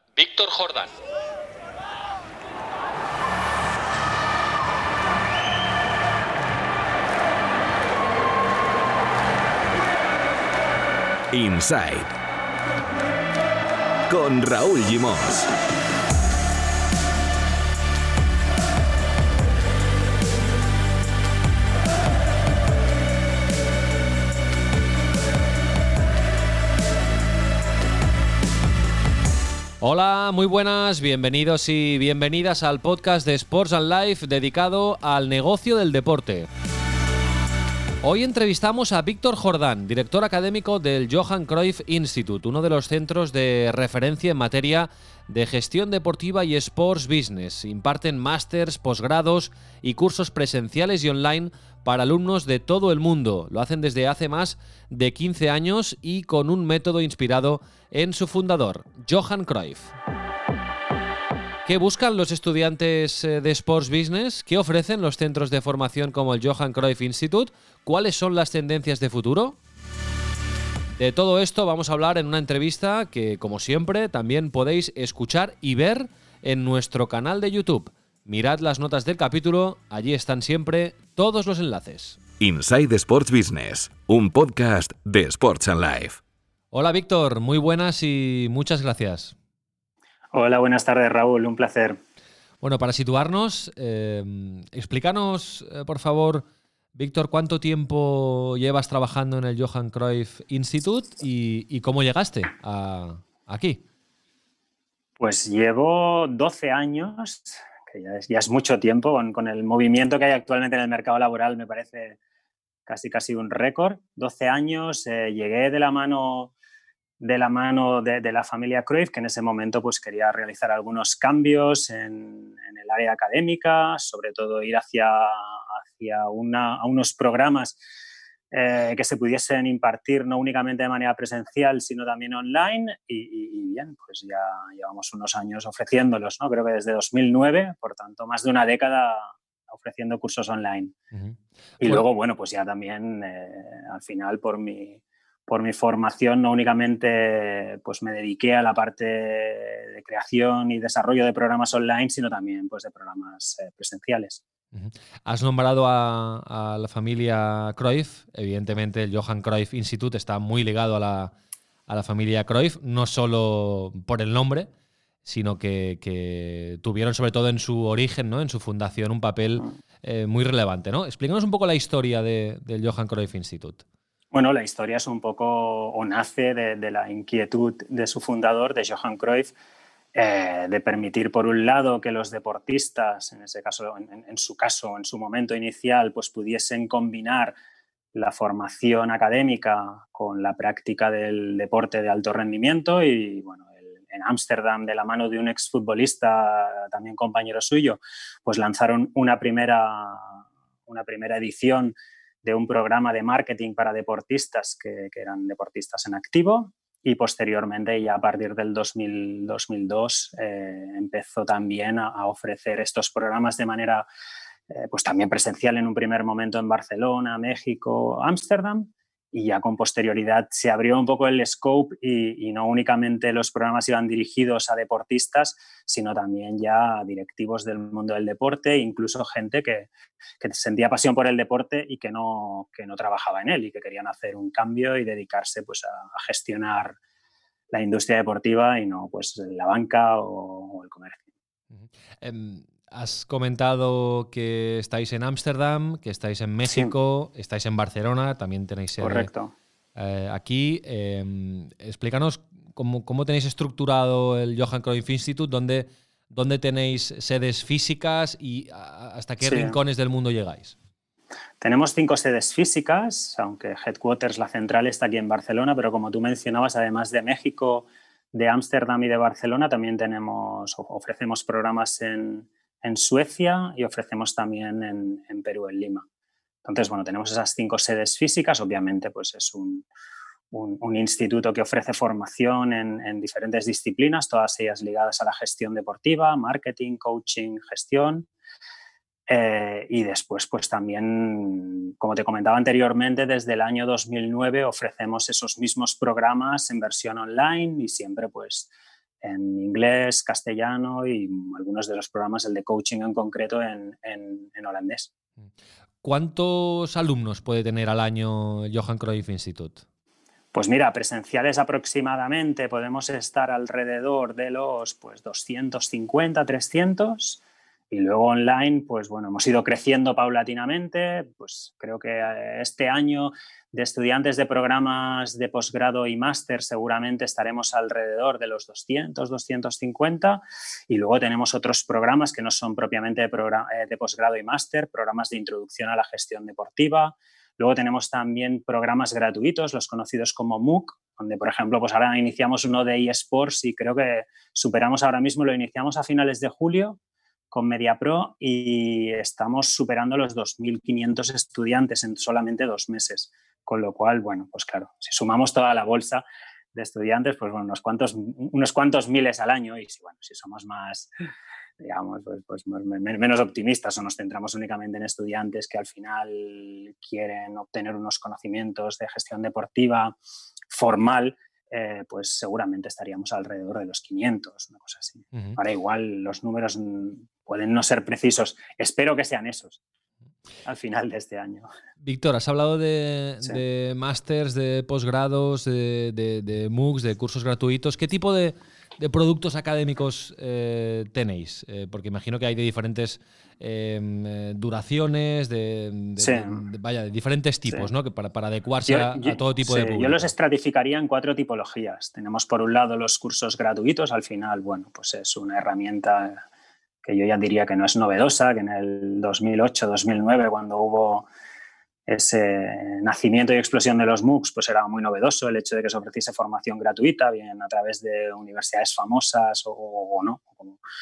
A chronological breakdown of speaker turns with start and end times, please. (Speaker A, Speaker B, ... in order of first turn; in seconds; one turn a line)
Speaker A: 0.1-1.0
Speaker B: 11.3-12.1
Speaker B: 14.1-15.5
Speaker A: 29.8-36.5
Speaker A: 38.0-59.9
Speaker A: 61.6-69.6
Speaker A: 71.0-82.2
Speaker B: 82.4-86.2
Speaker A: 86.7-89.3
Speaker C: 90.3-92.0
Speaker A: 92.6-103.8
Speaker C: 105.2-112.2
Speaker C: 112.9-116.5
Speaker C: 117.2-127.8
Speaker C: 128.5-141.0
Speaker A: 141.1-142.1
Speaker C: 141.8-154.4
Speaker A: 154.7-161.3
Speaker A: 161.9-164.7
Speaker A: 165.2-173.8
Speaker C: 174.3-179.5
Speaker C: 180.1-187.6
Speaker C: 188.1-214.1
Speaker C: 214.7-237.0
Speaker C: 237.7-241.2
Speaker A: 241.7-249.3
Speaker C: 246.7-246.9
Speaker C: 249.0-249.5
Speaker A: 250.0-260.8
Speaker C: 259.4-259.8
Speaker C: 261.6-276.1
Speaker C: 276.6-279.9
Speaker C: 280.5-288.3
Speaker C: 289.3-298.7
Speaker C: 299.2-305.1
Speaker A: 306.0-309.8
Speaker C: 310.5-347.0
Speaker C: 347.5-361.1
Speaker C: 361.8-370.2
Speaker C: 370.7-379.8
Speaker C: 380.7-381.7
Speaker A: 382.0-400.3
Speaker C: 396.2-396.6
Speaker C: 398.9-406.4
Speaker C: 407.0-411.3
Speaker C: 412.1-420.8